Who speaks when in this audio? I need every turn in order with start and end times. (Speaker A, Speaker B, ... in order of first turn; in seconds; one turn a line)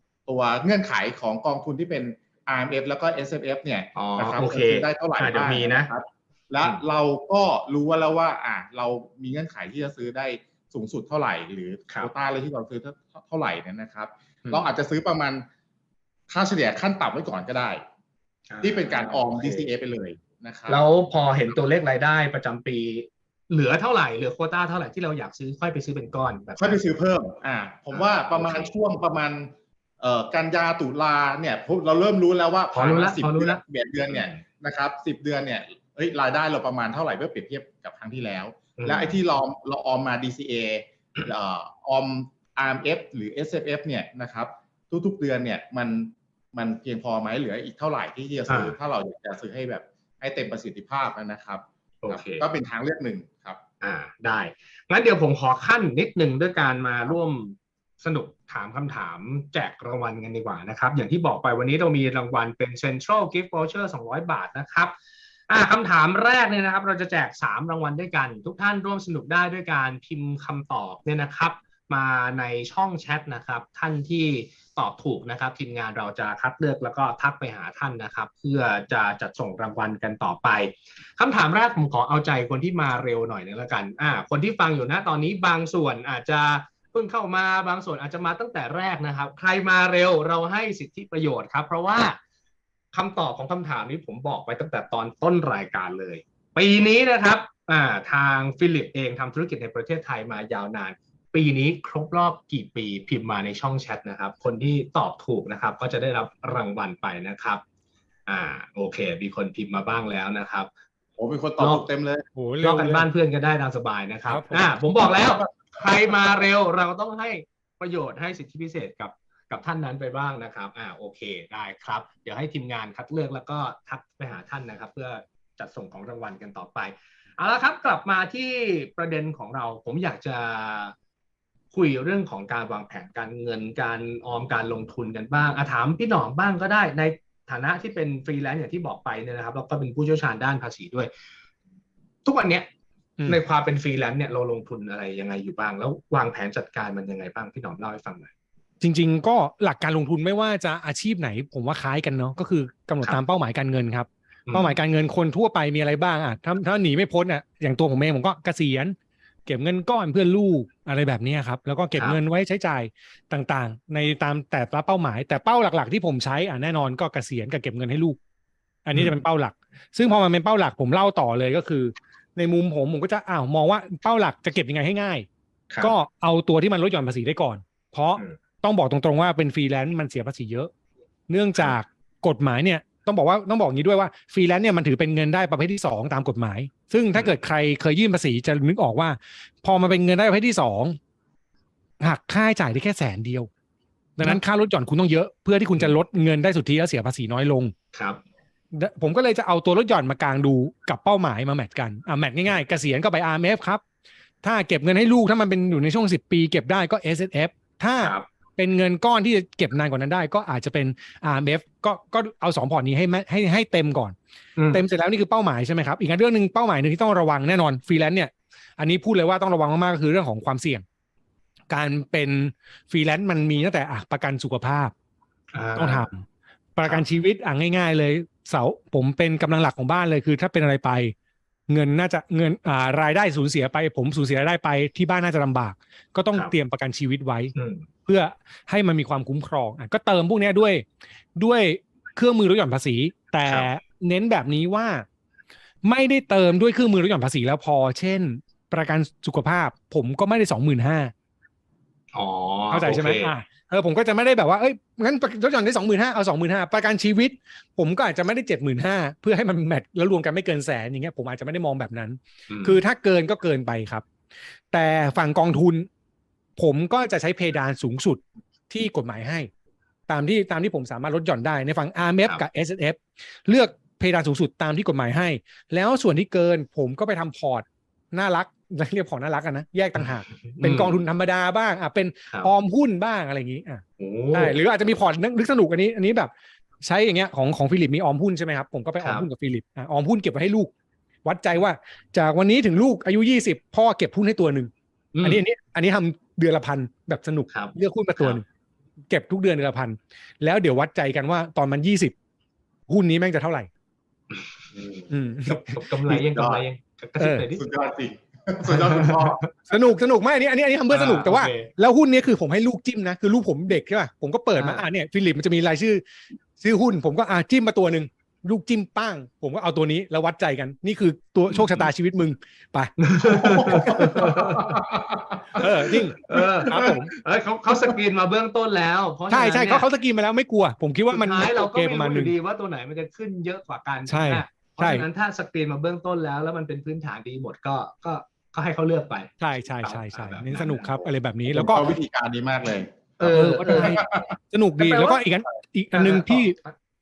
Speaker A: 0.3-15.4
Speaker B: 3.9-5.9
Speaker B: 14.4-14.7
Speaker A: 16.3-17.8
Speaker B: 18.5-19.7
Speaker A: 18.6-20.8
Speaker B: 20.7-26.8
Speaker A: 26.6-53.6
Speaker B: 27.9-28.7
Speaker B: 32.7-34.4
Speaker B: 38.8-39.2
Speaker B: 48.5-48.8
Speaker B: 52.0-52.4
Speaker B: 53.8-64.9
Speaker B: 65.5-92.2
Speaker B: 92.9-107.6
Speaker B: 108.3-110.7
Speaker A: 111.2-112.3
Speaker B: 111.6-111.8
Speaker C: 112.3-113.1
Speaker B: 112.6-130.9
Speaker C: 114.3-114.7
Speaker B: 131.7-141.1
Speaker B: 142.2-142.7
Speaker B: 143.2-148.3
Speaker C: 148.8-168.2
Speaker B: 154.5-154.8
Speaker C: 168.8-175.3
Speaker C: 175.8-180.7
Speaker C: 181.3-191.0
Speaker B: 187.1-187.4
Speaker C: 192.0-193.5
Speaker C: 194.2-197.7
Speaker B: 197.9-198.2
Speaker C: 198.7-203.8
Speaker C: 204.4-214.2
Speaker B: 208.0-208.2
Speaker B: 214.6-214.8
Speaker C: 214.7-220.8
Speaker C: 221.7-224.9
Speaker B: 225.5-226.1
Speaker C: 225.8-231.1
Speaker C: 231.7-237.5
Speaker B: 237.5-237.9
Speaker C: 238.1-245.1
Speaker B: 243.4-243.7
Speaker C: 245.8-251.1
Speaker B: 252.1-253.3
Speaker C: 252.7-264.0
Speaker B: 262.5-262.8
Speaker C: 264.7-265.9
Speaker C: 266.6-269.5
Speaker C: 270.1-290.7
Speaker B: 279.9-281.0
Speaker B: 282.3-282.5
Speaker B: 284.0-284.6
Speaker B: 289.0-289.3
Speaker C: 291.2-294.7
Speaker B: 295.1-295.4
Speaker C: 295.2-298.4
Speaker B: 297.5-298.4
Speaker C: 299.1-302.1
Speaker C: 302.9-303.7
Speaker B: 304.3-307.6
Speaker C: 305.1-305.8
Speaker A: 306.1-306.6
Speaker C: 307.2-307.4
Speaker A: 307.6-309.4
Speaker B: 308.6-309.5
Speaker C: 309.7-316.0
Speaker B: 310.9-311.7
Speaker B: 314.6-314.8
Speaker C: 316.6-322.9
Speaker B: 321.5-321.9
Speaker B: 323.0-324.8
Speaker C: 323.6-324.4
Speaker A: 323.7-325.7
Speaker C: 325.5-327.1
Speaker B: 326.2-329.9
Speaker C: 329.3-332.3
Speaker B: 331.1-341.1
Speaker C: 334.1-335.1
Speaker C: 339.4-341.9
Speaker A: 341.5-344.3
Speaker B: 343.2-344.0
Speaker C: 343.3-346.6
Speaker B: 344.8-345.2
Speaker B: 345.9-346.7